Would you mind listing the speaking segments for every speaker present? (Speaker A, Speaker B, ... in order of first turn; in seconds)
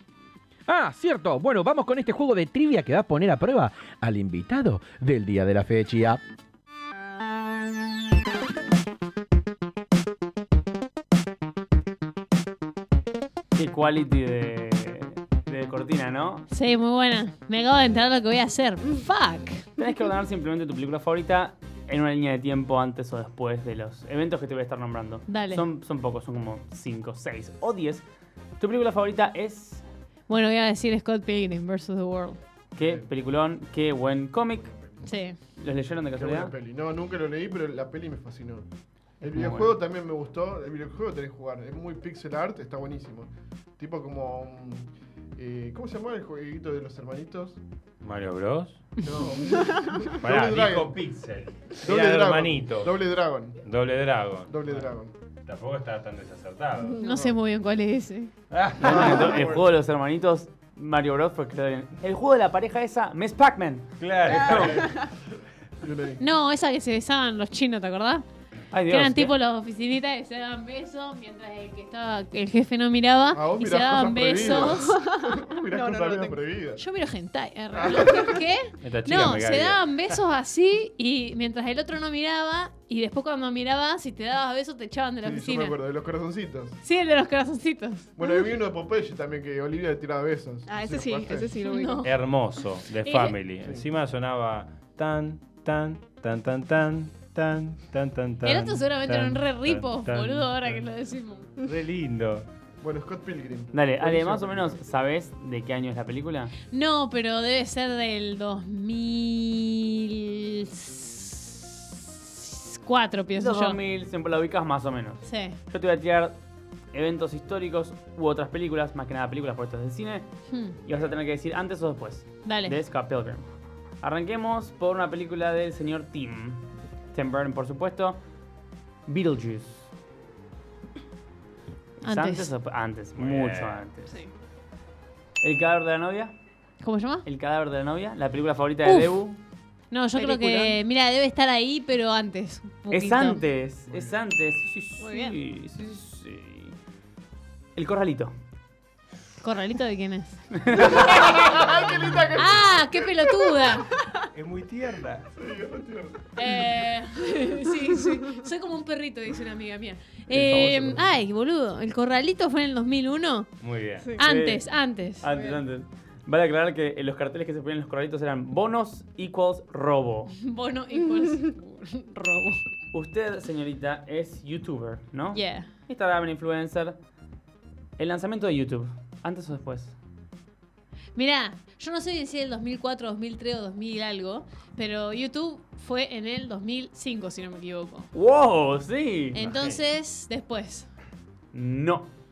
Speaker A: 0.7-6.2
Speaker B: 13.5-16.5, 19.8-28.0, 28.6-29.8, 32.7-34.7, 35.6-36.5, 39.2-39.7, 58.8-64.8, 68.7-69.3, 103.7-106.5, 113.3-116.4, 116.9-120.3, 120.8-123.5, 124.0-128.2, 129.1-129.9, 132.0-134.2, 135.4-136.3, 137.2-139.4, 142.9-146.8, 147.7-148.3, 150.6-151.1, 160.3-161.1, 164.2-164.7, 165.2-170.3, 172.9-176.9, 178.0-179.9, 188.1-189.4, 191.5-192.1
Speaker C: 16.5-19.7, 25.3-25.6, 30.3-32.4, 35.0-35.4, 57.0-58.3, 66.2-68.2, 68.9-75.0, 76.8-85.8, 86.8-88.1, 91.6-92.2, 93.0-93.4, 98.4-101.5, 106.7-113.8, 115.2-115.6, 120.5-120.8, 122.4-122.8, 132.0-132.5, 136.8-137.2, 138.8-139.2, 139.9-143.4, 149.4-151.6, 152.3-153.9, 156.3-163.5, 164.2-165.3, 170.3-172.6, 175.3-175.7, 181.2-188.1, 189.3-190.9
Speaker D: 32.8-33.1, 34.6-35.1, 36.1-38.7, 39.2-47.6, 49.0-51.0, 51.8-53.6, 54.5-55.1, 57.1-57.4, 58.8-59.6, 65.8-66.2, 73.3-76.8, 77.7-78.4, 85.2-86.8, 88.2-91.5, 93.6-93.8, 102.8-104.8, 143.9-144.2, 150.8-153.2, 155.3-156.4
Speaker E: 48.0-48.9, 50.2-52.9, 53.6-54.9, 55.4-57.0, 58.5-59.6, 64.0-64.9, 78.8-80.1, 92.0-100.8, 101.6-102.5, 133.2-133.9, 154.3-155.3, 163.6-164.1, 189.4-189.8
Speaker F: 49.5-50.1, 64.3-65.1, 74.4-76.4, 90.7-92.1, 140.1-140.8, 165.3-165.6